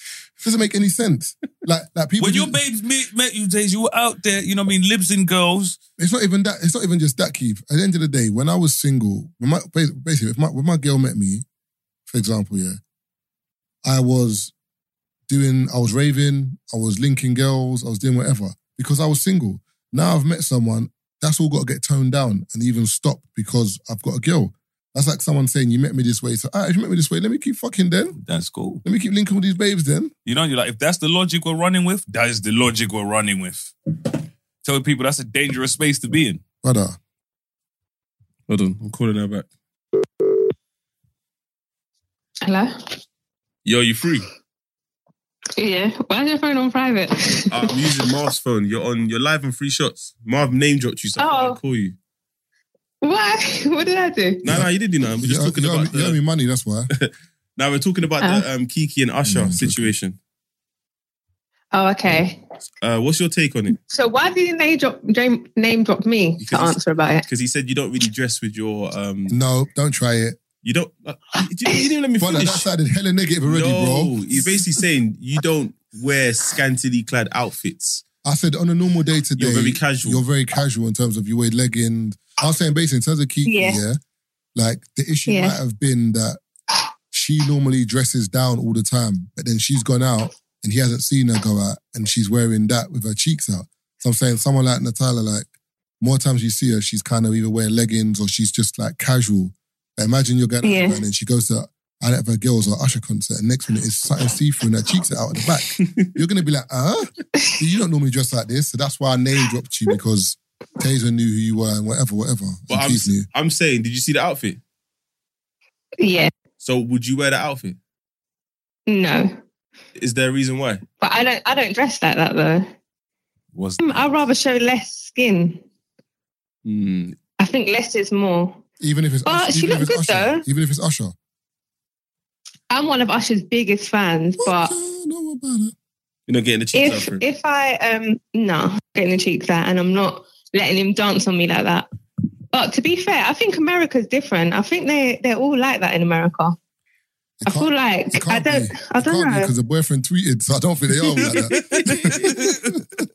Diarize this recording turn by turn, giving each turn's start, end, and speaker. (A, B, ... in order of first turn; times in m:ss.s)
0:00.4-0:02.6 A
0:02.2-0:05.8 B
0:06.0-0:11.4 A
0:12.1-0:12.8 A
0:13.8-0:14.5 A
0:15.3-0:28.2 A
0:28.2-0:28.8 B
0:28.8-0:30.1 A
0:30.2-0:33.7 B
0:34.6-0:36.4 B
0:36.6-0:37.0 A
0:38.5-0:39.5 C
0:42.4-0:42.7 D
0:43.6-0:44.3 C
0:45.6-0:47.5 D
0:47.5-0:52.0 C
0:51.2-0:51.6 D
0:53.0-0:54.4 D
0:54.4-0:56.2 C
0:54.4-0:56.9 A
0:56.9-1:00.2 C
0:58.2-0:58.4 D
0:59.2-0:59.9 A
1:01.7-1:02.4 D
1:02.8-1:03.8 C
1:03.8-1:07.2 D
1:06.4-1:09.3 C
1:09.3-1:10.4 A
1:10.6-1:12.6 C
1:12.2-1:14.2 A
1:13.4-1:18.0 C
1:18.2-1:24.0 A
1:19.4-1:20.2 C
1:23.4-1:23.8 D
1:24.5-1:26.4 A
1:25.3-1:25.6 D
1:27.1-1:35.5 A
1:36.0-1:53.3 A
1:40.6-1:41.0 D
1:52.7-1:54.6 C
1:56.0-1:56.3 D
1:56.6-1:57.8 C
1:58.9-1:59.3 D
2:00.0-2:00.8 C
2:01.0-2:02.7 D
2:03.5-2:04.2 B
2:03.8-2:05.6 D
2:06.6-2:07.2 C
2:07.4-2:08.6 D
2:08.8-2:11.1 A
2:09.2-2:10.4 D
2:12.7-2:14.7 D
2:14.4-2:15.7 A
2:16.3-2:17.2 C
2:16.7-2:21.9 D
2:22.5-2:26.6 D
2:27.4-2:32.8 A
2:27.5-2:29.5 D
2:31.7-2:32.8 B